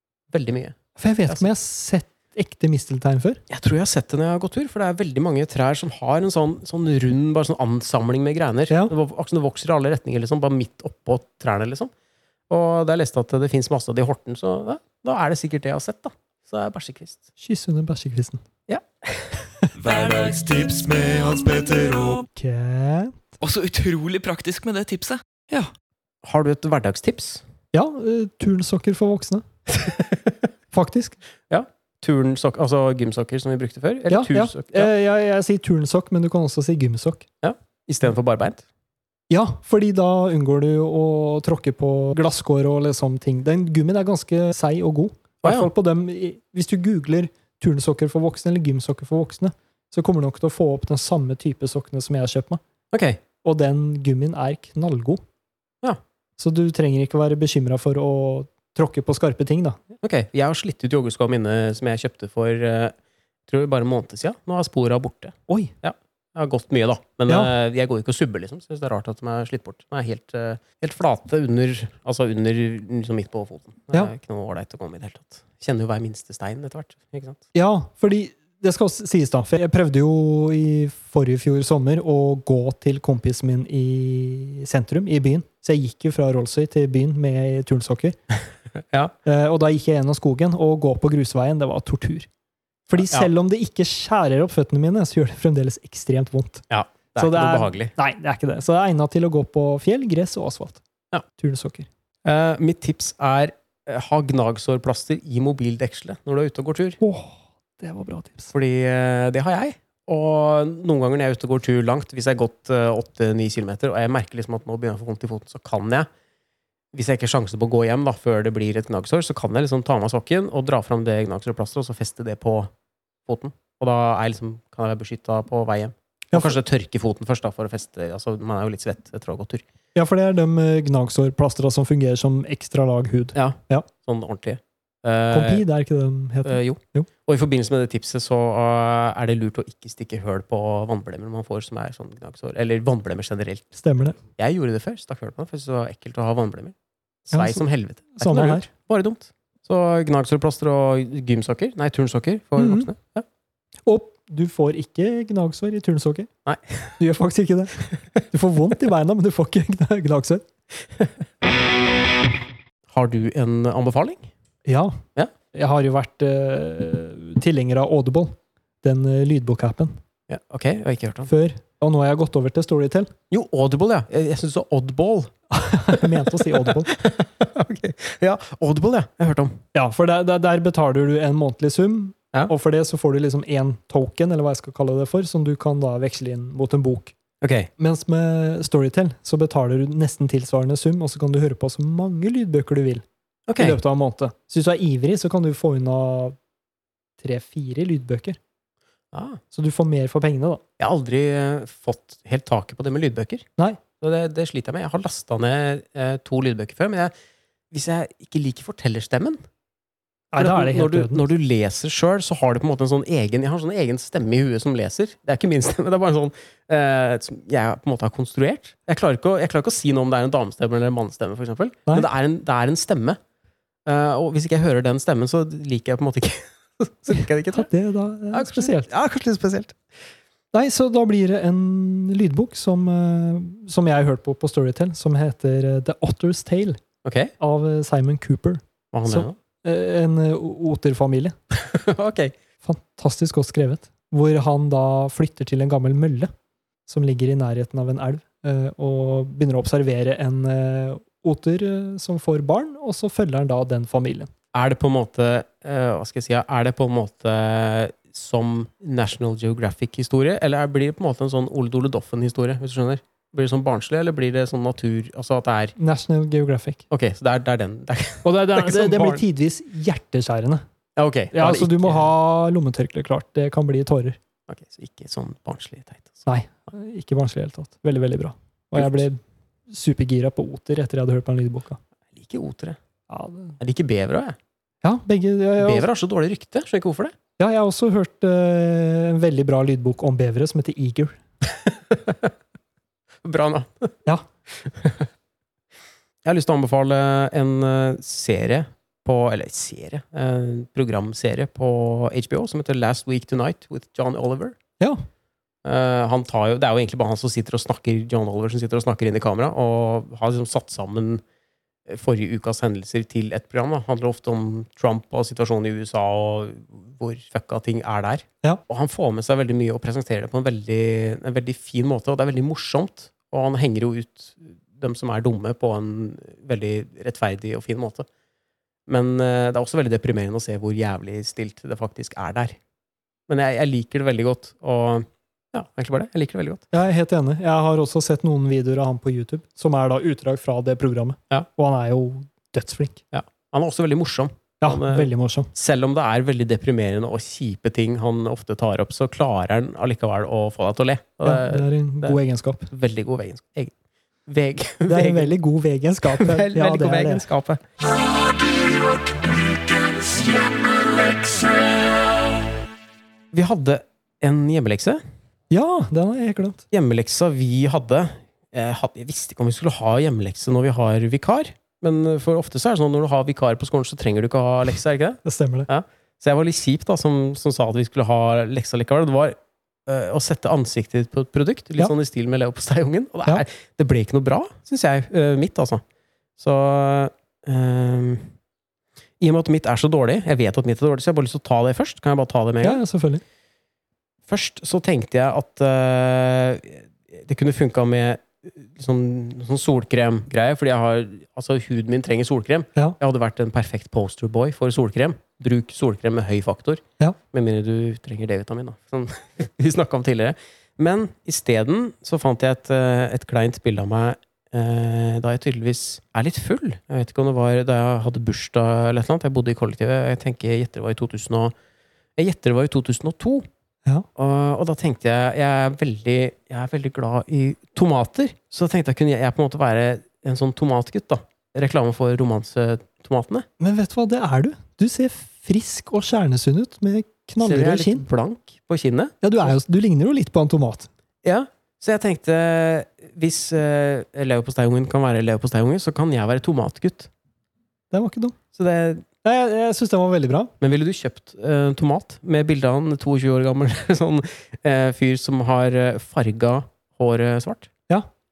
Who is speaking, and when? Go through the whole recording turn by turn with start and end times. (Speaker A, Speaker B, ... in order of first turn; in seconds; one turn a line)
Speaker A: 0.3-0.8
Speaker B: 1.0-3.4
Speaker A: 3.5-11.9
Speaker A: 12.5-17.2
Speaker B: 17.4-18.4
Speaker A: 18.7-19.4
Speaker C: 19.8-22.2
Speaker B: 22.3-23.3
Speaker C: 23.4-25.7
Speaker A: 26.2-27.4
Speaker B: 27.7-29.4
Speaker A: 29.7-30.4
Speaker B: 30.7-31.2
Speaker A: 31.5-34.9
Speaker B: 34.1-37.2
Speaker A: 37.4-38.6
Speaker B: 39.3-52.6
Speaker A: 45.4-45.7
Speaker A: 52.9-53.2
Speaker B: 53.4-55.2
Speaker B: 56.4-59.8
Speaker A: 60.0-62.9
Speaker A: 63.5-77.4
Speaker B: 77.5-88.2
Speaker A: 88.8-89.1
Speaker B: 89.2-92.3
Speaker B: 92.9-96.6
Speaker A: 93.0-93.3
Speaker A: 96.7-97.9
Speaker B: 97.2-100.8
Speaker B: 101.4-101.9
Speaker A: 102.2-107.0
Speaker B: 107.0-108.5
Speaker A: 108.5-116.1
Speaker A: 116.9-122.7
Speaker A: 123.2-129.6
Speaker B: 126.3-126.6
Speaker B: 129.9-133.9
Speaker A: 133.3-135.6
Speaker B: 135.3-137.1
Speaker A: 136.4-143.7
Speaker B: 143.7-144.2
Speaker A: 144.2-153.2
Speaker B: 147.3-148.7
Speaker B: 152.6-152.9
Speaker B: 153.8-156.3
Speaker A: 156.4-156.9
Speaker B: 157.0-160.4
Speaker A: 162.9-164.3
Speaker B: 164.7-165.0
Speaker B: 165.5-170.0
Speaker A: 170.3-171.3
Speaker B: 171.3-173.1
Speaker A: 173.3-175.3
Speaker B: 175.5-176.9
Speaker A: 175.9-179.6
Speaker B: 179.7-187.1
Speaker A: 187.4-187.7
Speaker B: 187.8-193.0
Speaker A: 193.5-193.8
Speaker B: 193.6-196.3
Speaker B: 197.2-198.4
Speaker A: 199.1-199.4
Speaker B: 199.5-200.6
Speaker A: 200.8-203.4
Speaker A: 204.0-207.1
Speaker A: 207.7-209.4
Speaker B: 210.3-211.2
Speaker A: 210.4-223.2
Speaker A: 223.8-227.7
Speaker B: 227.5-228.9
Speaker A: 228.3-229.8
Speaker B: 230.5-236.8
Speaker A: 237.0-237.3
Speaker B: 237.4-241.3
Speaker A: 238.9-239.3
Speaker A: 241.5-242.3
Speaker B: 242.6-246.3
Speaker B: 246.8-254.3
Speaker A: 254.5-265.7
Speaker B: 265.8-266.8
Speaker A: 266.9-269.2
Speaker B: 268.2-270.6
Speaker A: 270.9-272.1
Speaker B: 271.3-274.2
Speaker A: 274.5-276.2
Speaker B: 276.2-281.8
Speaker A: 278.7-279.0
Speaker A: 282.1-282.8
Speaker B: 283.1-283.6
Speaker A: 283.6-284.4
Speaker B: 284.8-285.9
Speaker A: 285.6-287.1
Speaker B: 287.4-291.2
Speaker A: 291.4-292.3
Speaker A: 293.2-293.9
Speaker A: 294.5-295.1
Speaker A: 296.2-304.6
Speaker A: 305.6-311.2
Speaker A: 311.9-328.1
Speaker A: 328.9-332.6
Speaker A: 333.3-336.6
Speaker B: 336.7-343.0
Speaker A: 343.1-352.2
Speaker B: 344.6-345.5
Speaker B: 351.2-352.7
Speaker A: 352.7-353.7
Speaker A: 354.2-355.3
Speaker B: 354.9-357.2
Speaker A: 356.1-357.6
Speaker A: 363.3-365.0
Speaker B: 365.5-366.6
Speaker A: 366.7-385.8
Speaker B: 375.2-375.7
Speaker A: 386.4-388.3
Speaker A: 389.2-392.8
Speaker B: 392.6-393.2
Speaker A: 394.3-421.5
Speaker A: 422.2-423.5
Speaker A: 424.1-433.4
Speaker B: 433.6-438.0
Speaker A: 437.4-439.5
Speaker B: 439.2-440.9
Speaker A: 441.2-447.1
Speaker B: 447.9-448.4
Speaker A: 448.5-449.0
Speaker B: 449.2-450.5
Speaker A: 450.6-457.7